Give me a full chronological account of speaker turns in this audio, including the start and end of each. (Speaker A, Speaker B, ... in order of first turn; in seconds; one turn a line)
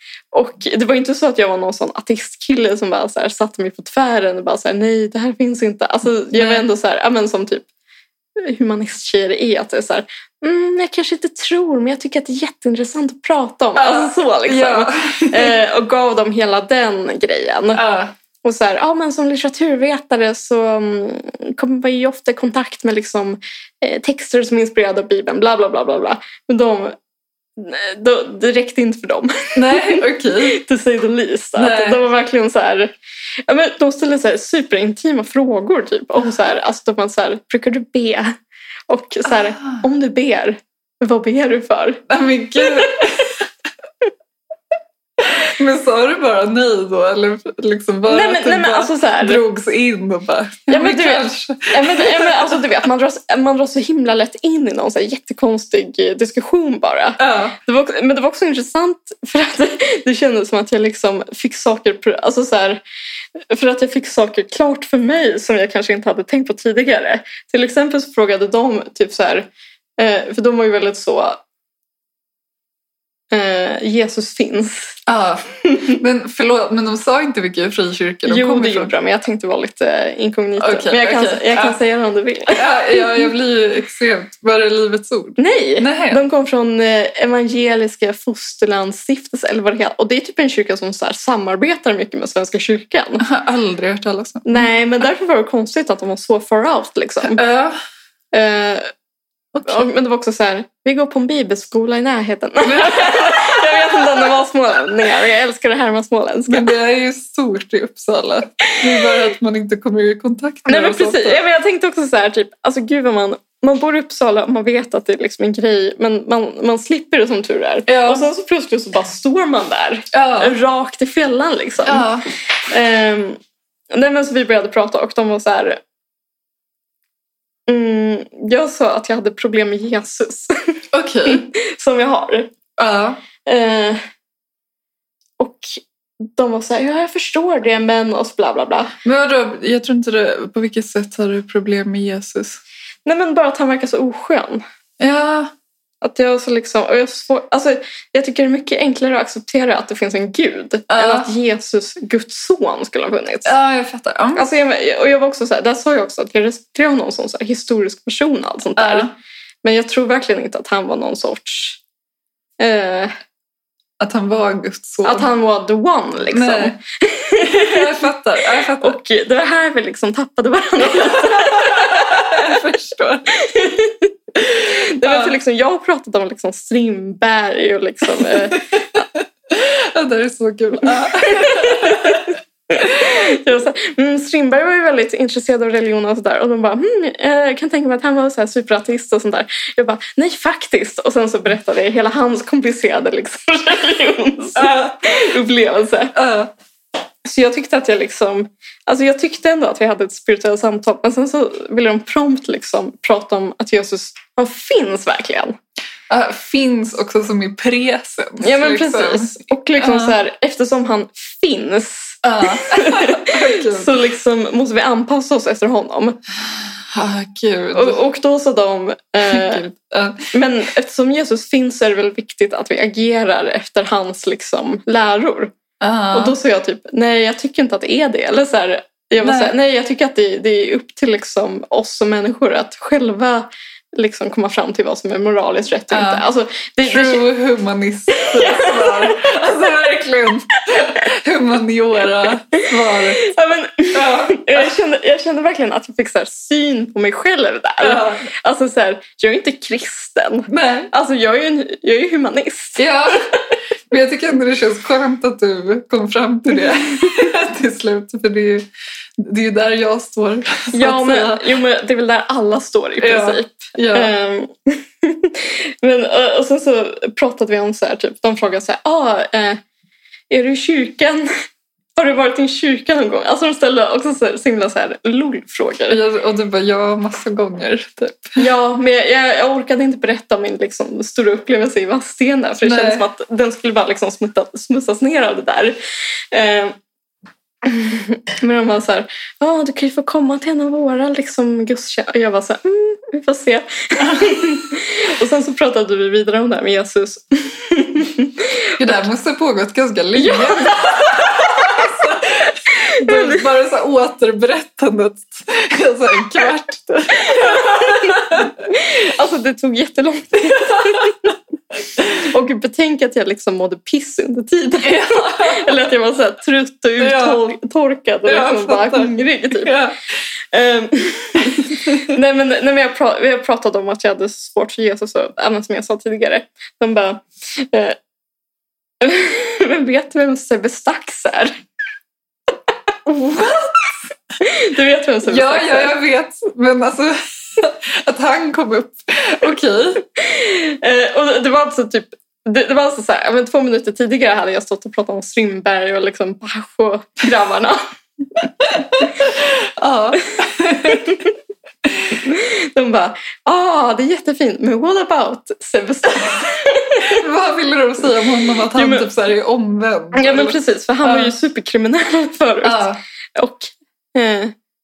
Speaker A: 0.3-7.7
Speaker B: 6.3-6.7
Speaker A: 8.4-17.9
Speaker B: 13.8-15.6
Speaker B: 17.8-18.1
Speaker A: 18.4-27.0
Speaker A: 27.6-32.9
Speaker B: 29.6-30.6
Speaker B: 31.6-32.0
Speaker A: 33.5-38.4
Speaker A: 38.9-42.0
Speaker B: 39.3-39.8
Speaker B: 42.1-43.5
Speaker A: 42.6-43.0
Speaker B: 45.2-52.7
Speaker A: 48.1-49.4
Speaker A: 50.7-62.8
Speaker B: 57.2-57.6
Speaker A: 63.5-71.4
Speaker A: 73.3-75.0
Speaker B: 75.1-78.9
Speaker A: 75.6-76.0
Speaker A: 78.3-83.2
Speaker B: 80.6-81.8
Speaker B: 82.5-86.2
Speaker A: 85.4-93.3
Speaker B: 93.2-94.7
Speaker A: 94.5-97.4
Speaker B: 97.2-97.8
Speaker A: 98.3-98.9
Speaker A: 99.6-106.7
Speaker B: 102.7-104.3
Speaker B: 106.5-111.4
Speaker A: 108.7-109.1
Speaker A: 110.7-122.1
Speaker B: 117.9-118.2
Speaker B: 120.1-120.5
Speaker B: 121.9-122.3
Speaker A: 122.7-123.4
Speaker A: 123.9-125.8
Speaker A: 127.7-132.5
Speaker B: 130.9-131.4
Speaker B: 132.8-133.2
Speaker A: 133.4-134.0
Speaker A: 135.4-138.9
Speaker B: 139.0-142.6
Speaker A: 143.1-144.6
Speaker B: 145.0-145.5
Speaker A: 146.0-153.5
Speaker B: 150.9-151.3
Speaker B: 153.4-154.5
Speaker A: 154.3-159.1
Speaker B: 158.8-159.1
Speaker A: 159.6-161.8
Speaker A: 162.6-163.1
Speaker B: 164.0-165.3
Speaker A: 165.0-168.1
Speaker B: 166.3-166.8
Speaker B: 167.4-169.0
Speaker A: 168.8-172.6
Speaker B: 171.0-173.4
Speaker A: 173.3-179.1
Speaker B: 175.0-175.3
Speaker B: 178.2-183.2
Speaker A: 181.1-196.2
Speaker B: 194.6-194.9
Speaker B: 196.1-196.5
Speaker A: 197.2-205.6
Speaker B: 206.1-210.2
Speaker A: 208.4-216.2
Speaker B: 212.2-214.0
Speaker B: 216.5-218.0
Speaker A: 217.7-219.7
Speaker B: 219.2-220.3
Speaker A: 220.3-225.5
Speaker B: 225.8-226.4
Speaker A: 226.1-237.3
Speaker B: 229.2-229.5
Speaker B: 235.9-236.2
Speaker B: 236.8-243.2
Speaker A: 238.2-239.2
Speaker A: 242.9-253.2
Speaker B: 243.9-244.7
Speaker B: 247.8-248.2
Speaker B: 250.5-250.9
Speaker B: 252.8-253.3
Speaker B: 253.9-258.7
Speaker B: 259.2-261.4
Speaker A: 260.7-269.6
Speaker B: 263.0-264.1
Speaker A: 270.3-271.3
Speaker A: 271.9-276.0
Speaker B: 275.9-278.4
Speaker A: 278.4-285.8
Speaker B: 282.6-283.1
Speaker A: 286.3-286.8
Speaker A: 287.6-298.7
Speaker B: 298.8-308.5
Speaker A: 300.1-303.4
Speaker A: 307.2-311.3
Speaker B: 310.6-311.3
Speaker A: 312.0-319.8
Speaker B: 314.8-315.8
Speaker B: 317.0-317.4
Speaker B: 318.3-320.0
Speaker A: 320.5-328.0
Speaker A: 329.0-331.5
Speaker B: 333.1-333.8
Speaker A: 334.4-335.9
Speaker B: 335.2-340.0
Speaker A: 340.2-347.8
Speaker B: 348.6-351.2
Speaker A: 350.9-351.3
Speaker B: 351.9-352.1
Speaker A: 352.1-357.2
Speaker B: 357.0-361.3
Speaker A: 358.7-359.1
Speaker A: 360.1-364.5
Speaker B: 362.6-363.0